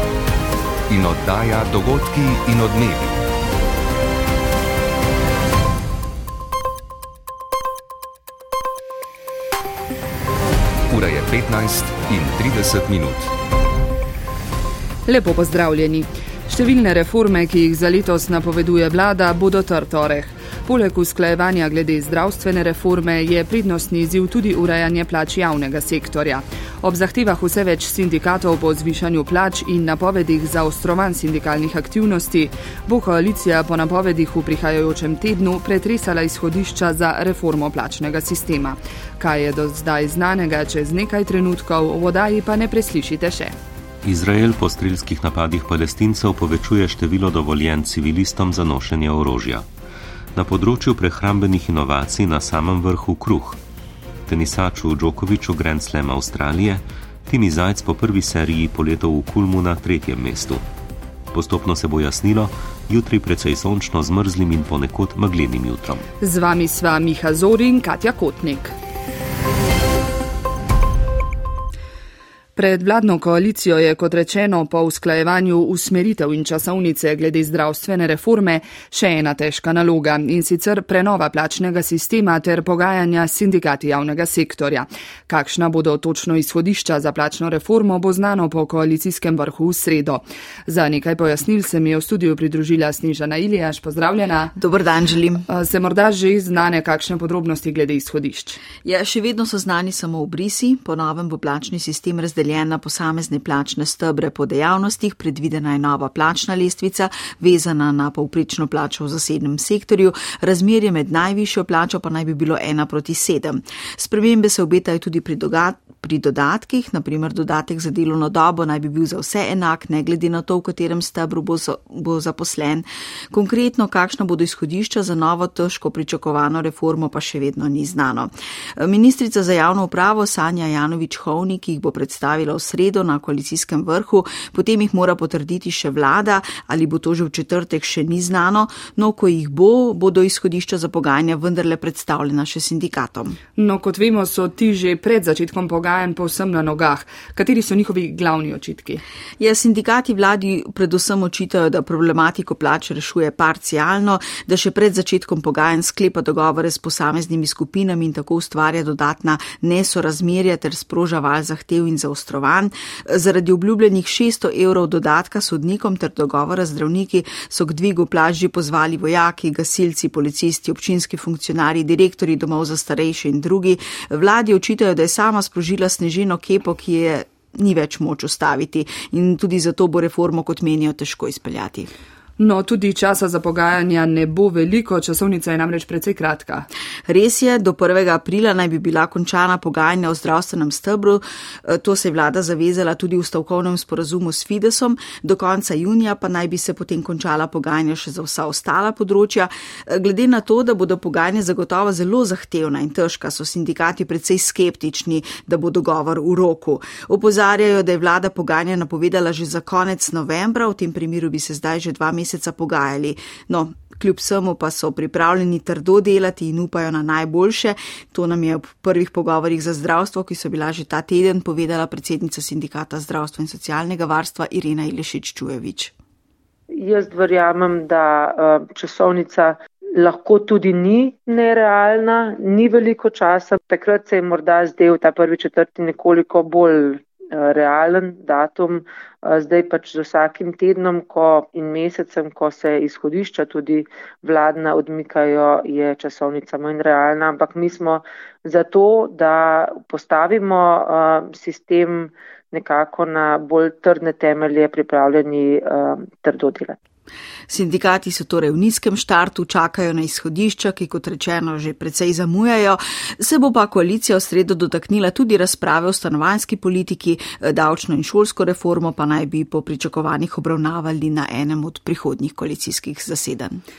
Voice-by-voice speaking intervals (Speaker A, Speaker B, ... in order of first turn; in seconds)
Speaker A: 0.9-3.2, 10.9-13.3
Speaker B: 15.1-43.5, 66.2-68.8, 72.6-94.5, 95.5-98.6, 143.6-149.0, 182.4-186.7
Speaker C: 44.0-49.7, 50.4-53.6, 54.3-60.6, 61.3-66.0
Speaker D: 94.6-95.5, 98.8-143.4, 149.4-181.9, 187.1-225.9, 257.5-273.6
Speaker E: 226.7-256.8